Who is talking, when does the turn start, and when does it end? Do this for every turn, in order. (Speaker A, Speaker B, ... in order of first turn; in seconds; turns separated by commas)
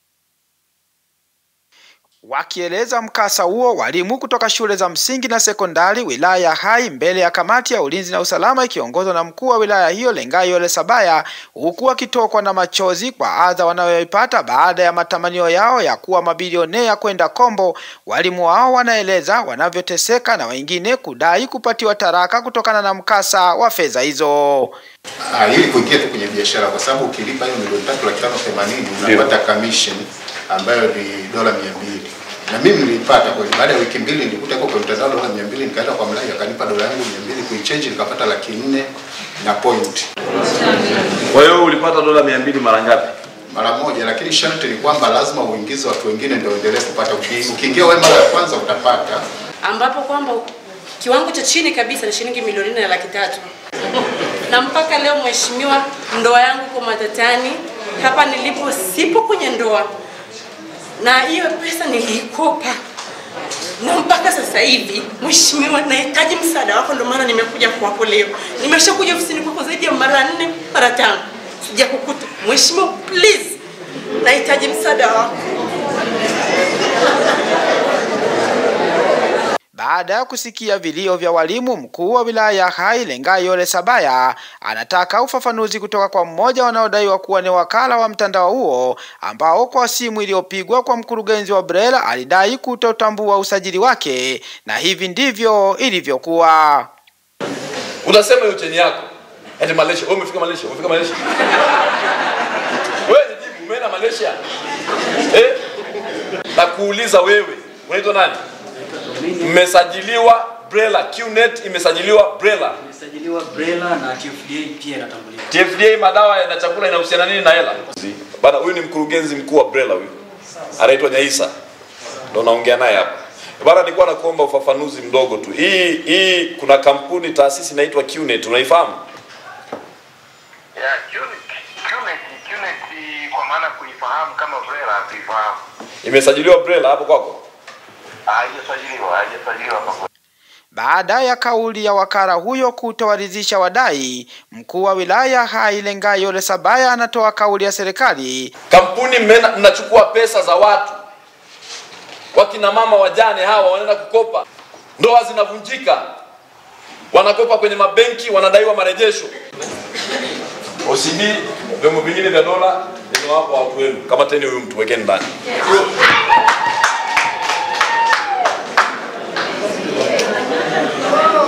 Speaker A: 2.2-24.7, Speaker B: 25.2-38.9, Speaker B: 39.4-40.0, Speaker C: 41.3-43.1, Speaker B: 43.5-49.2, Speaker D: 49.6-53.5, Speaker D: 54.0-59.9, Speaker D: 61.0-62.8, Speaker D: 63.8-73.6, Speaker D: 74.2-75.3, Speaker A: 79.7-96.9, Speaker C: 98.0-99.0, Speaker C: 99.6-101.2, Speaker C: 103.0-104.4, Speaker C: 105.3-105.6, Speaker C: 106.5-108.4, Speaker E: 109.0-109.3, Speaker C: 109.3-112.8, Speaker E: 112.8-115.4, Speaker C: 115.5-120.1, Speaker C: 120.8-121.5, Speaker C: 122.3-129.0, Speaker F: 130.8-135.6, Speaker C: 136.0-137.4, Speaker F: 138.3-140.1, Speaker A: 140.7-148.5, Speaker C: 148.7-151.0, Speaker C: 152.3-154.4, Speaker C: 155.0-156.0, Speaker C: 157.1-159.3, Speaker C: 160.8-165.3